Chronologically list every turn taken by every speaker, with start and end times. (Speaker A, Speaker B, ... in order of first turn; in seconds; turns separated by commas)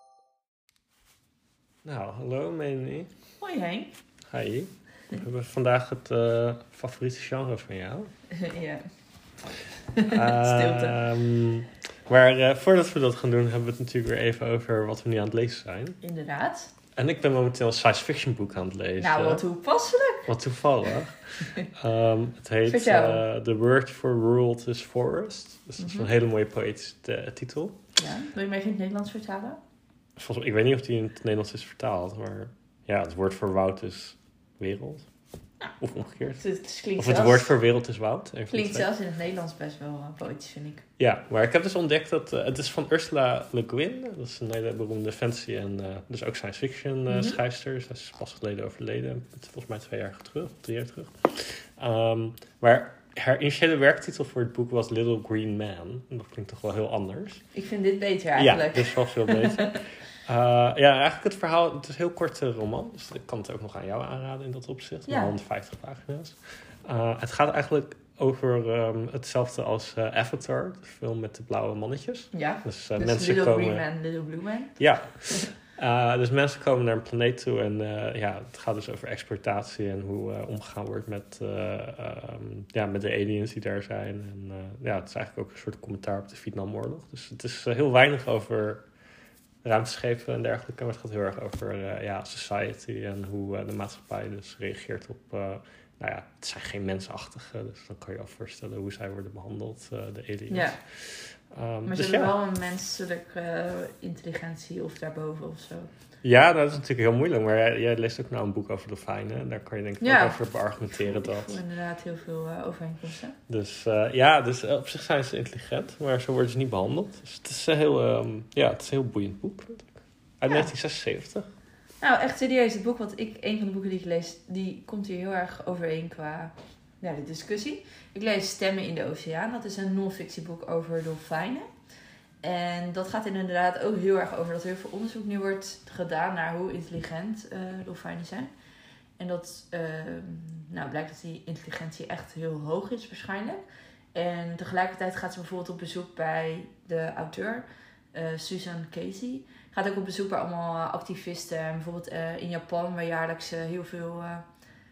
Speaker A: 1.8-3.1, Speaker B: 3.4-3.9, Speaker A: 4.3-8.1, Speaker B: 8.3-8.9, Speaker B: 9.9-11.0, Speaker A: 10.1-16.0, Speaker B: 16.0-16.7, Speaker A: 16.9-19.4, Speaker B: 19.0-20.3, Speaker A: 20.3-27.8, Speaker B: 22.7-23.2, Speaker B: 25.8-26.1, Speaker B: 28.0-29.6, Speaker A: 30.2-35.1, Speaker A: 35.8-36.4, Speaker B: 36.4-37.5, Speaker A: 37.0-38.9, Speaker B: 38.5-40.9, Speaker A: 41.0-57.4, Speaker B: 47.1-47.4, Speaker B: 57.5-59.8, Speaker A: 58.4-73.8, Speaker B: 65.1-65.3, Speaker B: 72.3-75.5, Speaker A: 74.8-88.9, Speaker A: 89.6-102.3, Speaker B: 100.5-100.8, Speaker B: 101.9-105.9, Speaker A: 106.2-111.6, Speaker B: 110.0-113.4, Speaker A: 113.5-121.5, Speaker B: 122.0-131.7, Speaker B: 132.4-138.5, Speaker B: 139.2-143.6, Speaker B: 144.1-154.5